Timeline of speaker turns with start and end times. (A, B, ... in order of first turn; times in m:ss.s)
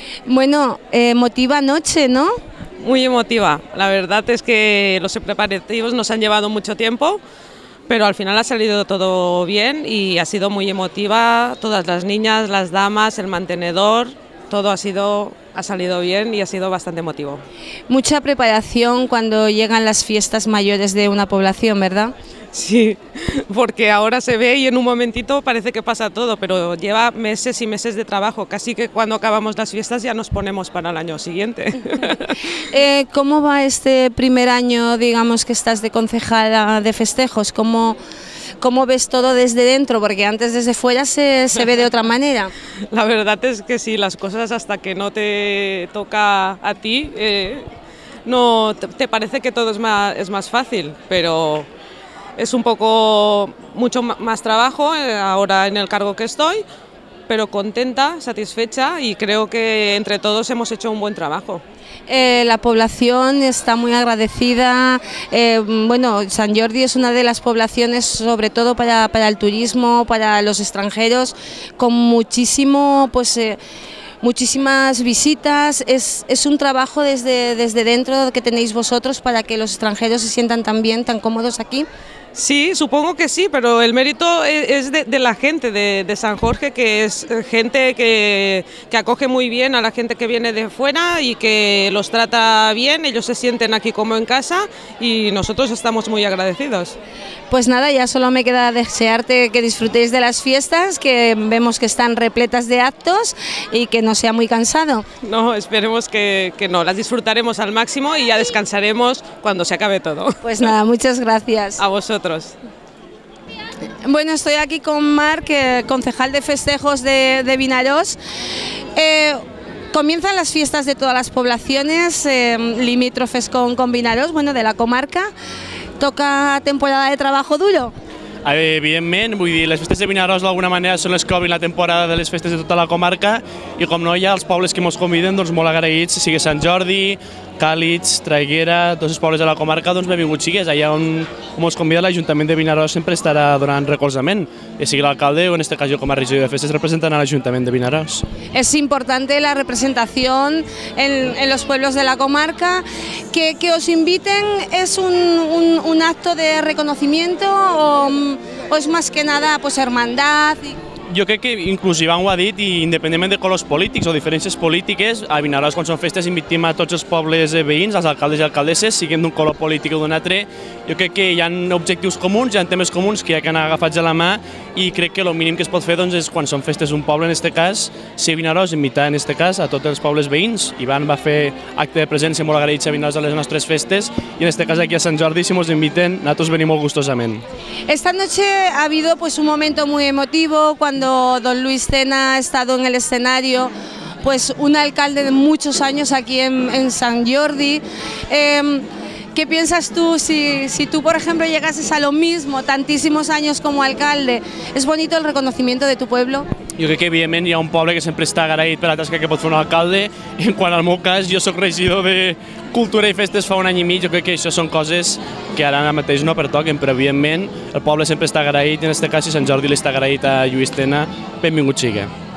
0:00.3-0:02.4 A
0:02.8-0:07.2 B
0:07.9-0:17.4 B
0:17.9-0:22.1 A
0:22.5-0:32.2 B
0:32.7-0:38.0 A
0:38.6-0:42.5 A
0:42.9-0:47.7 B
0:48.3-0:51.7 B
0:52.4-0:56.6 B
0:57.3-1:01.6 B
1:02.1-1:13.6 A
1:14.2-1:21.9 A
1:22.4-1:37.0 B
1:37.5-1:45.1 A
1:45.2-1:50.4 B
1:50.4-1:51.8 A
1:51.8-1:52.6 B
1:54.0-1:58.2 A
1:59.0-2:05.3 A
2:06.0-2:07.9 A
2:08.4-2:28.3 C
2:28.5-2:40.8 A
2:41.1-3:07.4 C
3:07.9-3:13.7 A
3:14.2-3:26.5 A
3:26.8-3:42.1 C